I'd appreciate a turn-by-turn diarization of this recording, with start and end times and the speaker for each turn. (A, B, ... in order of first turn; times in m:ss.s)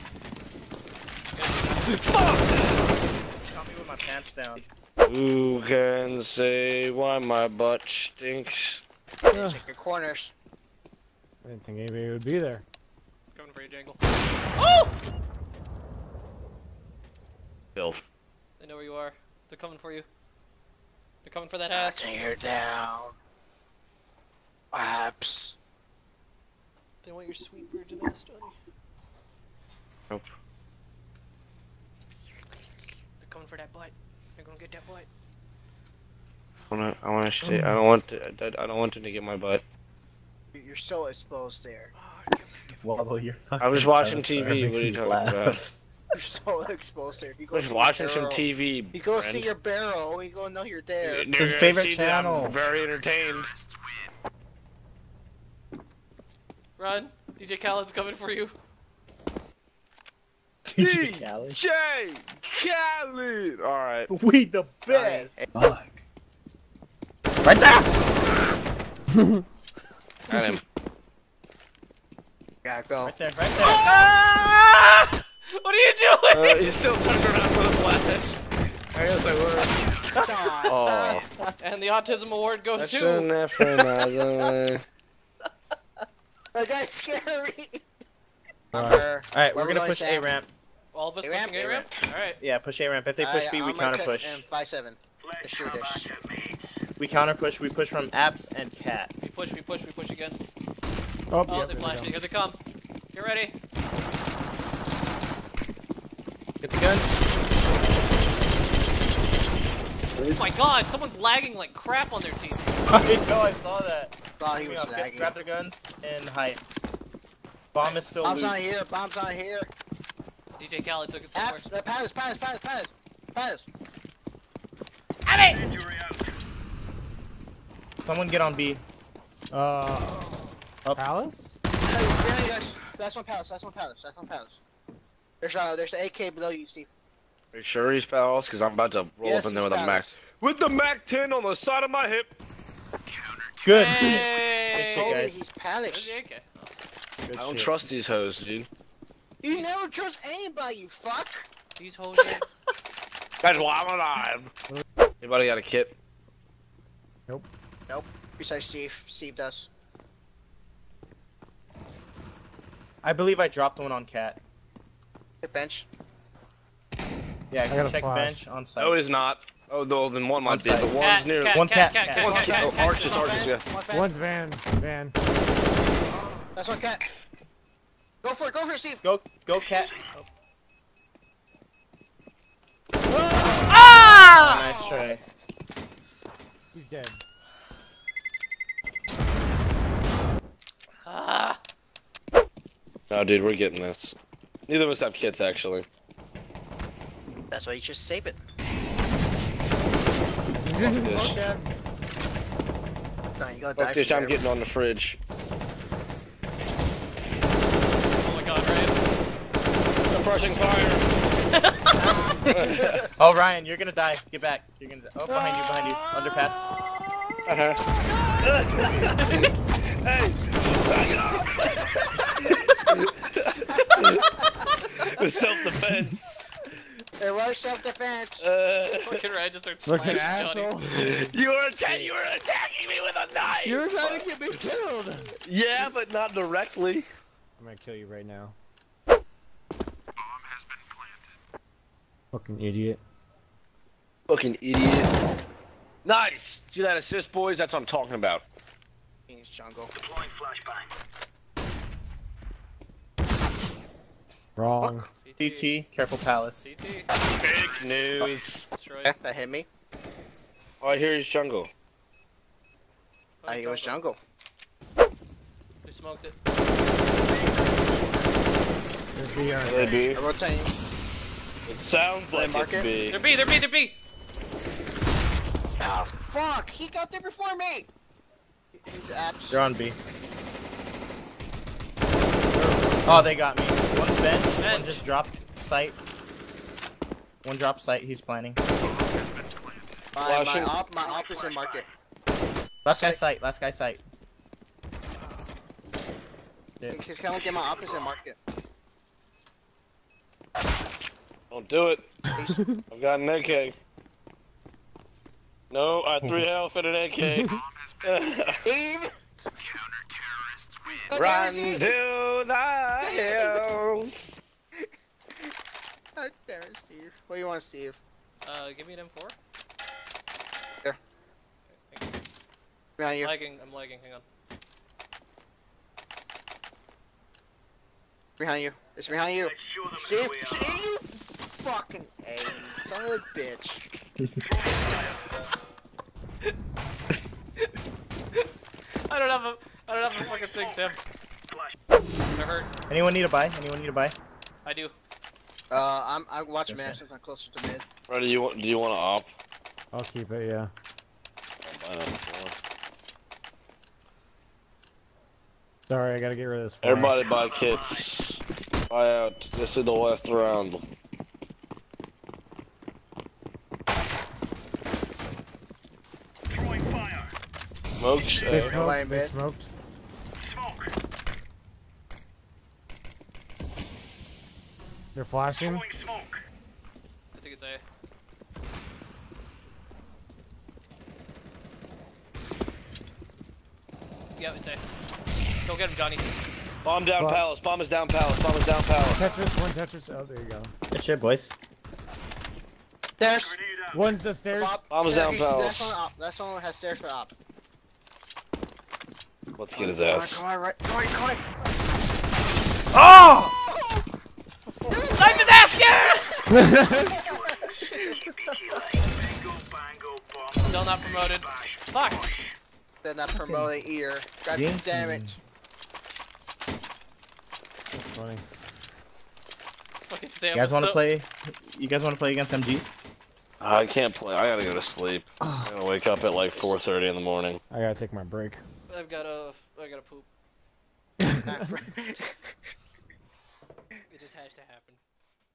0:01.3-0:02.0 A
0:01.8-0:02.8 B
0:03.4-0:04.6 C
0:05.0-0:08.8 B
0:09.3-0:10.3 D
0:09.3-0:09.6 E
0:11.4-0:12.6 E
0:13.3-0:14.0 A
0:14.5-0:14.9 A
0:17.7-0:18.0 B
0:18.6-0:20.1 A
0:21.2-0:22.2 A
0:21.7-0:23.1 D
0:24.7-0:25.6 D
0:27.0-0:28.6 A
0:33.2-0:35.1 A
0:36.7-0:39.6 B
0:37.4-0:37.7 C
0:40.5-0:41.9 D
0:42.0-0:42.8 A
0:42.8-0:45.7 C
0:43.6-0:45.6 B
0:46.1-0:51.3 D
0:47.5-0:49.5 B
0:51.0-0:53.5 B
0:51.3-0:52.6 C
0:56.8-0:58.5 A
1:00.7-1:01.6 C
1:00.8-1:04.1 B
1:04.1-1:05.4 C
1:04.9-1:05.4 D
1:07.4-1:07.9 C
1:10.3-1:10.6 B
1:12.6-1:13.1 D
1:13.0-1:14.0 C
1:13.6-1:14.5 D
1:13.7-1:14.1 A
1:15.5-1:16.7 A
1:16.3-1:18.4 B
1:18.9-1:19.8 B
1:20.1-1:21.5 D
1:20.6-1:21.2 B
1:21.6-1:23.3 A
1:22.8-1:24.8 B
1:23.6-1:24.5 D
1:26.5-1:27.8 D
1:28.7-1:30.3 D
1:28.7-1:29.0 E
1:29.3-1:30.5 C
1:30.9-1:32.4 A
1:31.2-1:31.9 D
1:32.4-1:34.4 C
1:33.2-1:36.2 D
1:37.0-1:39.1 C
1:39.2-1:40.4 A
1:41.3-1:42.2 E
1:41.5-1:42.6 A
1:43.1-1:43.5 A
1:46.6-1:47.1 C
1:50.4-1:52.8 A
1:52.9-1:56.6 C
1:54.4-1:55.4 D
1:57.7-1:58.7 C
1:57.8-1:58.0 A
1:58.2-1:59.7 D
2:00.6-2:01.6 A
2:01.3-2:03.7 D
2:08.0-2:08.8 C
2:09.5-2:10.3 E
2:10.9-2:11.6 E
2:11.8-2:14.6 D
2:15.4-2:16.9 D
2:17.5-2:22.4 B
2:19.2-2:20.2 D
2:23.6-2:25.5 C
2:23.7-2:25.2 A
2:24.8-2:26.2 D
2:25.8-2:26.7 A
2:27.3-2:27.7 E
2:27.3-2:28.7 B
2:29.4-2:31.5 D
2:31.8-2:32.4 A
2:33.4-2:34.5 B
2:35.2-2:35.9 B
2:37.9-2:39.7 D
2:43.0-2:44.4 C
2:45.4-2:45.9 D
2:47.5-2:49.0 C
2:47.7-2:48.4 E
2:48.8-2:51.6 B
2:50.4-2:50.9 C
2:51.0-2:53.3 A
2:51.5-2:52.5 C
2:52.1-2:53.7 B
2:52.2-2:54.2 D
2:53.8-2:55.2 E
2:56.5-2:57.0 D
2:58.2-2:59.0 D
2:59.0-2:59.9 C
3:03.7-3:05.0 A
3:04.3-3:05.2 C
3:06.7-3:07.2 E
3:11.0-3:11.6 A
3:13.1-3:14.1 B
3:14.7-3:15.8 B
3:17.5-3:18.4 D
3:20.5-3:21.7 E
3:20.8-3:21.4 B
3:23.4-3:24.4 D
3:23.7-3:25.2 B
3:28.2-3:29.0 A
3:30.0-3:31.1 B
3:31.5-3:32.3 A
3:32.0-3:32.5 D
3:32.5-3:33.0 B
3:33.2-3:36.6 C
3:35.3-3:35.7 B
3:37.4-3:37.8 B
3:38.4-3:44.3 B
3:39.2-3:39.5 A
3:44.8-3:46.4 B
3:47.2-3:48.5 D
3:48.4-3:49.2 B
3:49.0-3:50.7 A
3:49.8-3:51.3 E
3:50.9-3:54.3 B
3:53.6-3:55.3 E
3:55.4-3:57.0 B
3:57.6-3:58.5 E
4:02.3-4:03.0 E
4:04.3-4:05.1 B
4:06.0-4:08.4 B
4:09.3-4:09.9 D
4:14.6-4:15.0 E
4:15.1-4:15.7 A
4:15.4-4:16.7 C
4:16.6-4:17.1 A
4:17.2-4:18.7 B
4:18.7-4:19.1 A
4:19.0-4:19.7 D
4:20.8-4:21.7 B
4:23.4-4:24.0 A
4:23.5-4:24.2 D
4:25.8-4:26.4 A
4:29.1-4:30.0 E
4:29.6-4:30.2 B
4:30.1-4:30.7 D
4:31.6-4:33.2 B
4:32.3-4:32.9 D
4:33.1-4:34.0 A
4:35.8-4:37.9 D
4:38.7-4:39.6 D
4:39.5-4:40.0 C
4:42.5-4:43.2 E
4:43.0-4:46.0 C
4:44.6-4:45.0 A
4:47.4-4:48.6 C
4:50.1-4:51.9 D
4:50.2-4:50.7 B
4:52.8-4:54.0 C
4:52.9-4:53.2 D
4:56.9-4:58.4 D
5:01.5-5:02.1 B
5:02.3-5:02.6 D
5:02.9-5:03.8 B
5:05.7-5:08.6 B
5:08.6-5:09.1 D
5:11.0-5:11.9 D
5:11.1-5:14.4 B
5:13.0-5:13.6 D
5:16.2-5:18.0 D
5:18.4-5:19.4 A
5:21.7-5:22.2 A
5:23.0-5:23.3 D
5:23.2-5:24.2 A
5:28.4-5:33.8 D
5:39.0-5:41.0 A
5:42.3-5:42.7 A
5:42.9-5:44.1 C
5:44.6-5:44.9 A
5:45.7-5:47.8 D
5:46.7-5:47.0 C
5:48.1-5:49.3 B
5:49.9-5:50.7 E
5:51.6-5:52.6 B
5:55.9-5:57.2 E
5:56.8-6:00.8 B
6:08.0-6:08.8 B
6:08.4-6:09.3 D
6:08.5-6:09.7 E
6:15.1-6:15.9 E
6:17.3-6:17.8 A
6:24.4-6:24.8 A
6:25.6-6:26.4 A
6:26.8-6:29.2 B
6:27.2-6:27.4 E
6:29.1-6:30.7 E
6:30.9-6:31.5 C
6:33.2-6:33.8 D
6:33.9-6:34.8 E
6:34.5-6:37.3 D
6:34.9-6:35.9 B
6:39.6-6:40.4 B
6:39.7-6:41.4 D
6:43.1-6:43.4 E
6:44.8-6:48.4 D
6:45.2-6:46.5 A
6:46.5-6:47.0 E
6:50.6-6:52.3 A
6:53.0-6:55.4 D
6:53.3-6:53.7 C
6:54.5-6:55.4 C
6:58.0-6:58.4 E
7:00.1-7:01.0 A
7:00.5-7:02.9 C
7:03.6-7:07.6 B
7:07.7-7:08.6 E
7:08.9-7:10.3 A
7:11.2-7:11.6 E
7:11.4-7:12.6 D
7:14.1-7:15.0 A